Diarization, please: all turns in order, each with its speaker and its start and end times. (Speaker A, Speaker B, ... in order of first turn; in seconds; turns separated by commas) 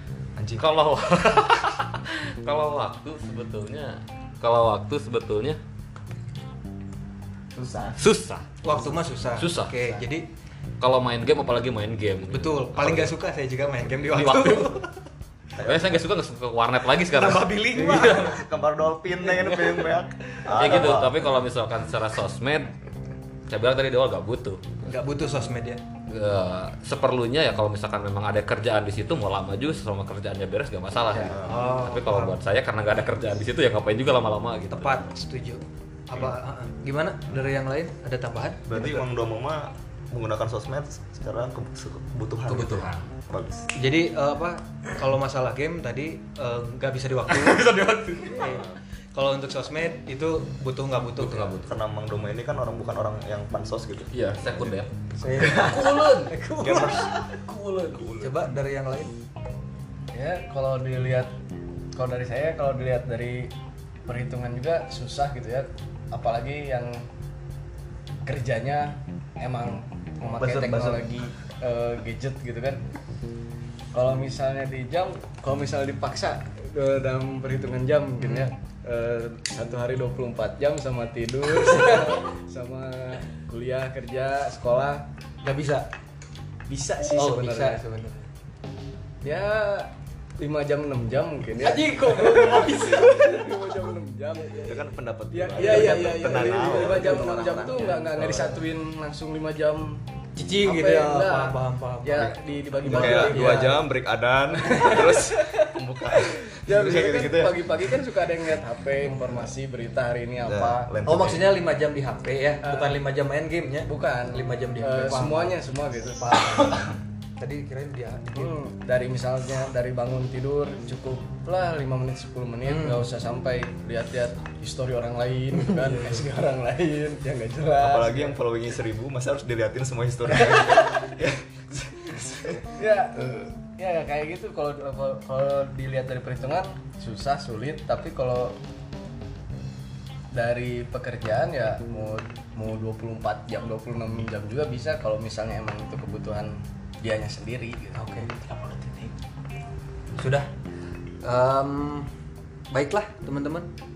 Speaker A: 0.4-0.7, Speaker B: 0.6-5.6, Speaker C: 7.5-8.0, Speaker B: 8.0-8.5, Speaker D: 8.6-10.3, Speaker B: 9.4-9.9, Speaker B: 10.8-13.1, Speaker D: 12.3-14.9, Speaker B: 14.1-14.8, Speaker A: 15.6-16.1, Speaker B: 15.6-18.3, Speaker D: 17.2-18.4, Speaker A: 17.5-21.3, Speaker B: 20.5-22.7, Speaker B: 23.5-24.6, Speaker D: 24.8-25.8, Speaker B: 26.1-35.0, Speaker A: 31.1-31.6, Speaker D: 31.2-32.4, Speaker D: 34.7-38.9, Speaker A: 38.7-43.7, Speaker B: 42.5-43.1, Speaker D: 43.8-47.7, Speaker B: 47.3-48.7, Speaker D: 48.2-51.7, Speaker B: 51.2-51.7, Speaker A: 51.7-54.8, Speaker B: 54.1-56.3, Speaker D: 55.2-55.7, Speaker A: 55.3-55.8, Speaker E: 55.5-57.0, Speaker A: 56.6-57.2, Speaker A: 57.9-58.5, Speaker D: 58.2-59.1, Speaker E: 60.1-61.3, Speaker E: 62.0-63.5, Speaker E: 64.1-66.9, Speaker E: 68.3-72.8, Speaker C: 70.4-71.1, Speaker E: 73.9-85.1, Speaker D: 78.2-78.5, Speaker D: 85.4-85.9, Speaker E: 86.7-87.8, Speaker D: 87.1-88.3, Speaker E: 89.2-100.0, Speaker D: 91.9-92.7, Speaker A: 94.7-97.0, Speaker C: 95.6-98.5, Speaker D: 100.4-103.8, Speaker E: 100.6-103.8, Speaker A: 102.8-107.6, Speaker E: 104.6-110.9, Speaker A: 110.5-111.5, Speaker D: 111.1-115.6, Speaker E: 112.6-113.0, Speaker E: 113.8-116.3, Speaker D: 116.1-118.5, Speaker E: 118.3-128.4, Speaker D: 122.7-123.1, Speaker D: 125.8-126.2, Speaker A: 127.8-132.6, Speaker E: 130.4-131.1, Speaker E: 132.8-138.6, Speaker E: 140.3-149.1, Speaker D: 147.9-148.3, Speaker D: 150.2-150.5, Speaker D: 151.2-152.1, Speaker D: 152.7-153.7